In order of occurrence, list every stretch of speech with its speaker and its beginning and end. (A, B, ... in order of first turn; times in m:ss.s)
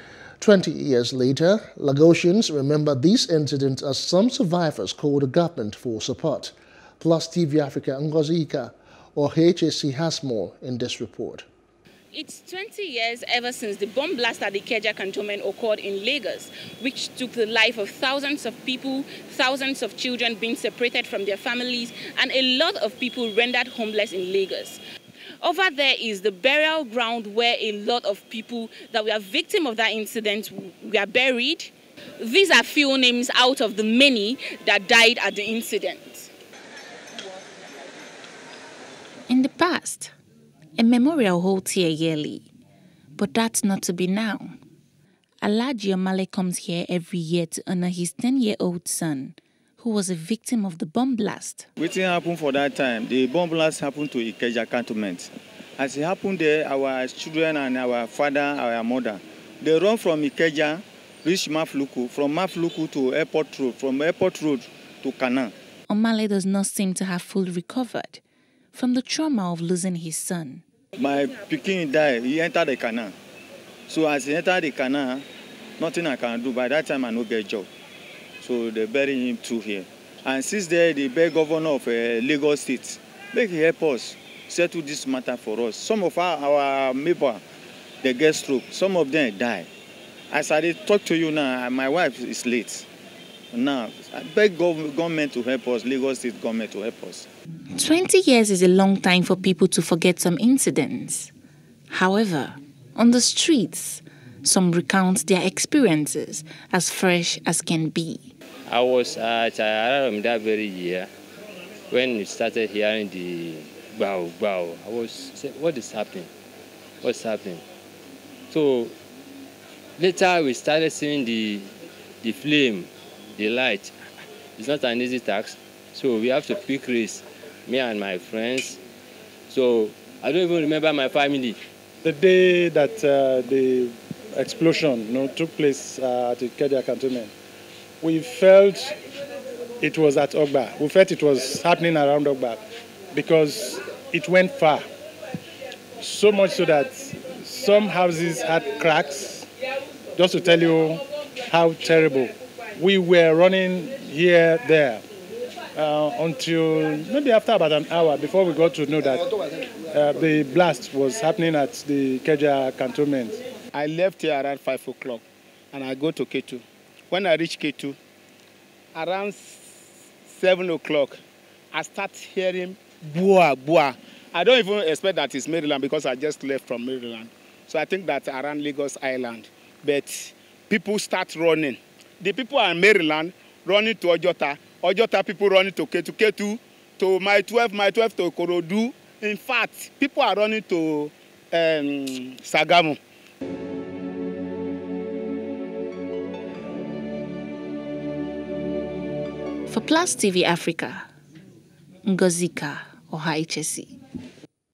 0:00.4-0:11.4 A
0:12.1-0:24.8 B
0:25.4-0:36.3 B
0:39.3-0:40.1 C
0:40.8-0:42.5 C
0:43.2-0:44.5 C
0:45.4-0:51.7 C
0:51.8-1:05.5 D
1:05.9-1:08.2 C
1:08.7-1:10.6 C
1:11.0-1:13.1 D
1:13.9-1:15.2 D
1:15.8-1:17.7 D
1:18.4-1:27.4 D
1:28.0-1:29.7 D
1:30.3-1:32.8 D
1:33.5-1:37.3 D
1:37.8-1:41.3 C
1:41.9-1:48.3 C
1:48.7-1:51.0 E
1:51.9-1:56.3 E
1:57.0-1:57.6 E
1:58.5-1:58.9 E
2:00.0-2:01.6 E
2:02.2-2:03.9 E
2:04.6-2:08.8 E
2:09.5-2:10.3 E
2:10.8-2:11.5 E
2:12.0-2:17.3 F
2:18.0-2:18.9 F
2:19.8-2:22.6 F
2:23.1-2:24.8 F
2:26.0-2:29.5 F
2:30.2-2:35.0 F
2:35.7-2:39.3 F
2:39.9-2:43.4 F
2:43.7-2:48.0 G
2:48.9-2:49.6 G
2:50.3-2:51.2 G
2:51.7-3:13.0 G
3:19.7-3:21.0 C
3:22.0-3:23.9 C